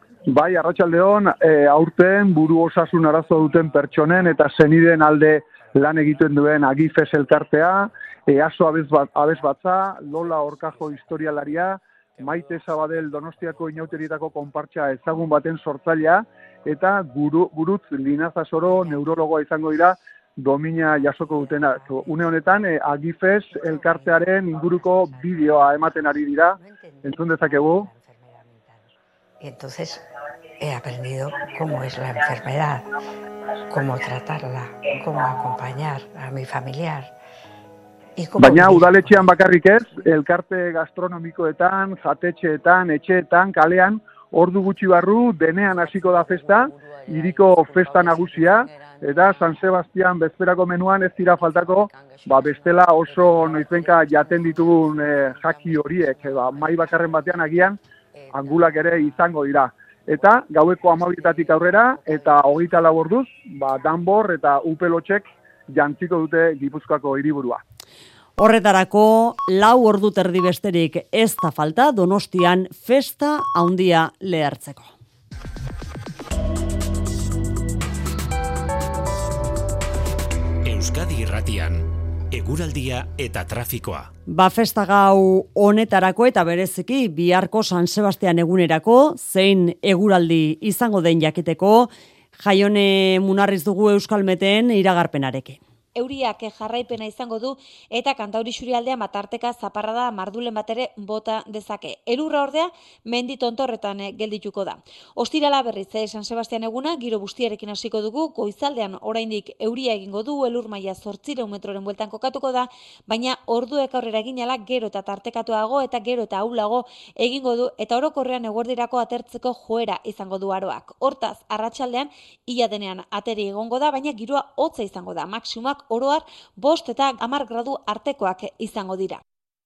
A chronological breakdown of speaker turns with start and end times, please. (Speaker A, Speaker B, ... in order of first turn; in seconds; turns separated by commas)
Speaker A: 0.3-27.9, Speaker B: 27.9-28.4, Speaker B: 29.4-30.0, Speaker B: 30.6-32.9, Speaker B: 33.7-37.1, Speaker B: 38.1-39.2, Speaker A: 38.4-57.8, Speaker A: 58.3-67.6, Speaker C: 68.4-74.9, Speaker D: 80.6-84.1, Speaker C: 84.3-95.6, Speaker E: 96.0-129.2